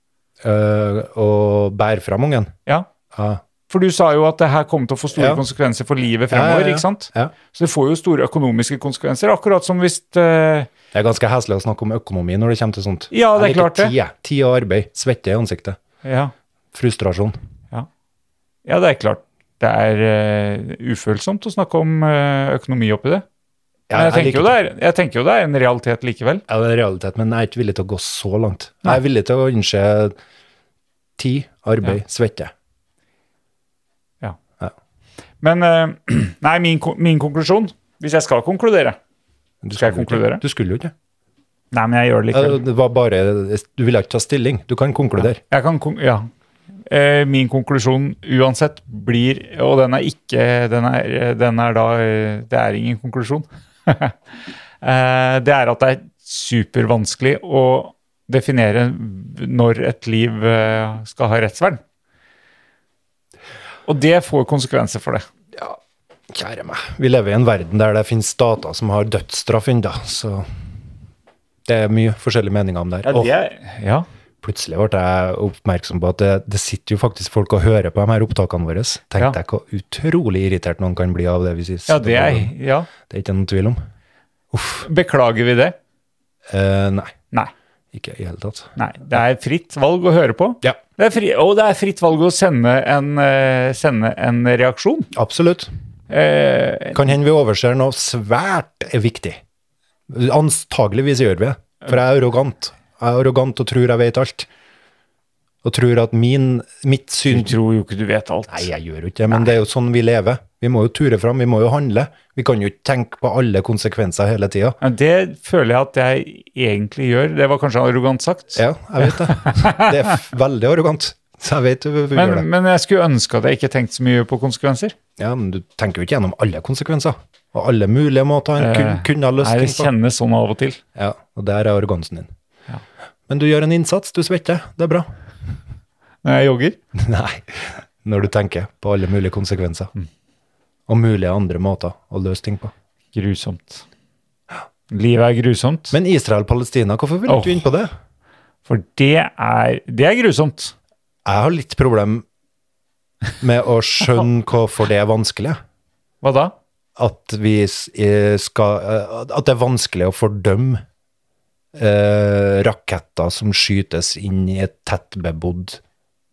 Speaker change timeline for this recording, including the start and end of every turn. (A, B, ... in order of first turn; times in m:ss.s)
0:00.4-0:02.5 A
0:03.1-0:03.4 A
0:03.7-0:10.7 B
0:05.2-0:05.4 A
0:06.3-0:07.3 A
0:10.9-0:15.8 A
0:13.1-0:14.0 B
0:16.0-0:16.3 B
0:16.7-0:17.4 A
0:18.6-0:23.2 B
0:23.9-0:24.6 A
0:23.9-0:26.4 B
0:26.5-0:30.2 A
0:31.2-0:32.5 A
0:35.4-0:39.0 B
0:39.6-0:40.9 A
0:39.8-0:40.4 B
0:41.7-0:42.6 B
0:42.3-0:45.4 A
0:45.2-0:46.3 B
0:46.9-0:54.2 B
0:54.8-1:01.8 B
1:03.9-1:05.3 B
1:06.3-1:10.5 A
1:11.7-1:13.3 A
1:13.0-1:14.1 B
1:14.4-1:23.8 A
1:21.9-1:22.9 B
1:24.5-1:24.9 A
1:24.8-1:25.8 B
1:26.5-1:27.1 A
1:27.9-1:28.7 A
1:28.8-1:35.1 B
1:35.1-1:35.7 A
1:36.1-1:37.1 B
1:36.9-1:39.4 A
1:40.1-1:44.5 A
1:45.6-1:47.6 A
1:47.3-1:48.7 B
1:48.5-1:54.8 A
1:54.8-1:59.9 B
1:58.6-2:02.5 A
2:02.1-2:05.0 B
2:05.2-2:09.9 A
2:08.6-2:10.8 B
2:11.0-2:12.3 A
2:13.3-2:15.1 A
2:16.2-2:16.8 B
2:17.0-2:19.9 A
2:20.9-2:22.7 A
2:23.1-2:23.8 B
2:24.9-2:26.0 B
2:25.9-2:27.9 A
2:27.3-2:27.6 B
2:28.7-2:30.7 B
2:31.2-2:32.3 A
2:33.4-2:35.6 A
2:36.2-2:36.6 B
2:37.0-2:40.8 A
2:41.8-2:45.8 A